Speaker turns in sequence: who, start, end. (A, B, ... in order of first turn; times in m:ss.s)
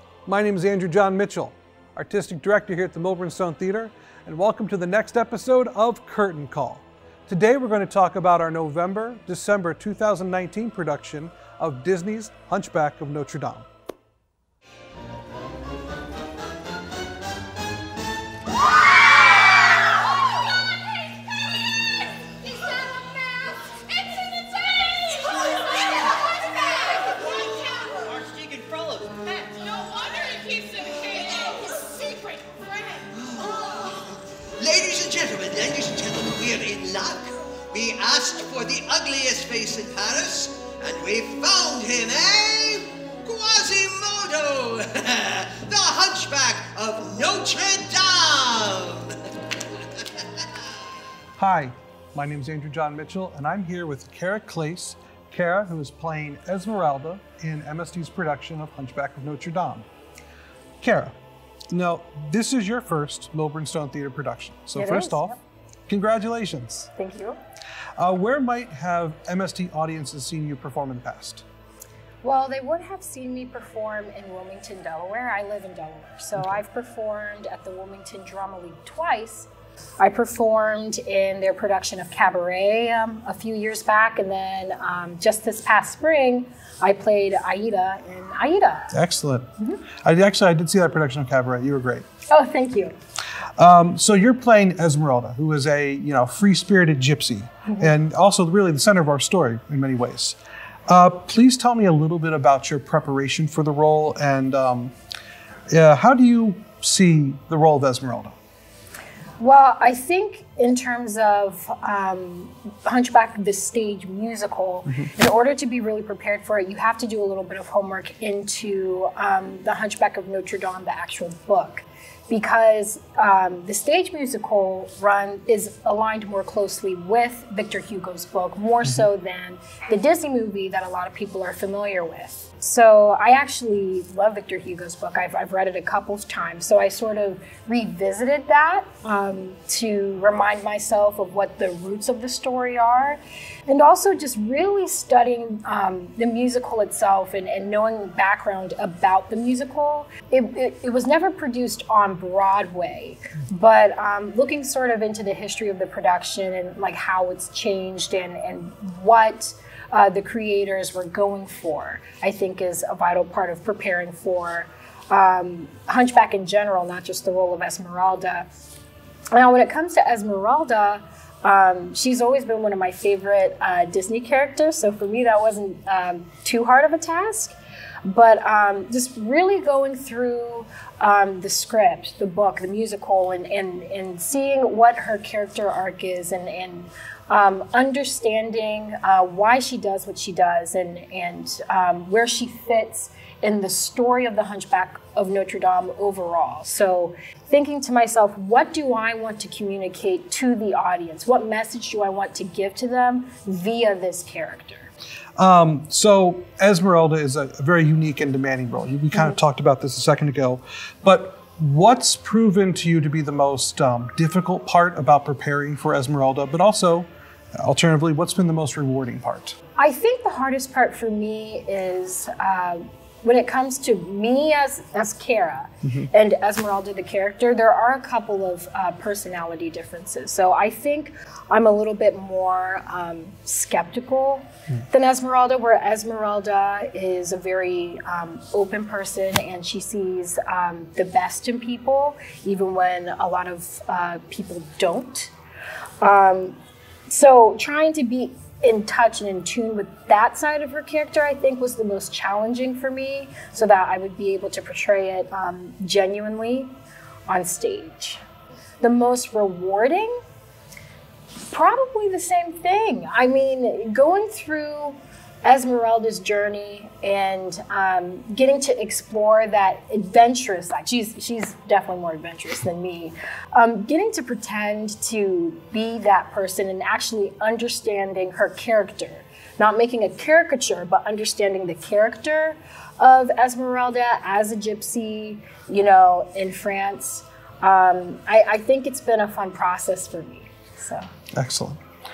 0:00.2-0:13.7 A
0:26.9-0:31.9 B
0:32.4-0:49.2 B
0:51.4-0:59.9 A
1:00.8-1:01.1 A
1:01.7-1:05.4 A
1:04.8-1:05.3 C
1:05.9-1:06.9 A
1:07.0-1:07.4 C
1:08.0-1:11.4 A
1:12.2-1:19.5 C
1:20.0-1:28.9 C
1:28.9-1:29.5 A
1:30.0-1:32.0 A
1:32.3-1:33.0 C
1:33.6-1:40.4 A
1:40.9-1:44.9 A
1:45.7-1:48.3 A
1:49.4-2:48.5 C
2:49.3-3:24.9 C
3:25.4-3:39.6 A
3:39.8-4:05.3 C
4:06.0-4:06.6 C
4:07.1-4:16.7 C
4:17.3-4:18.2 C
4:18.8-4:20.1 C
4:21.5-4:51.0 C
4:51.3-4:51.8 A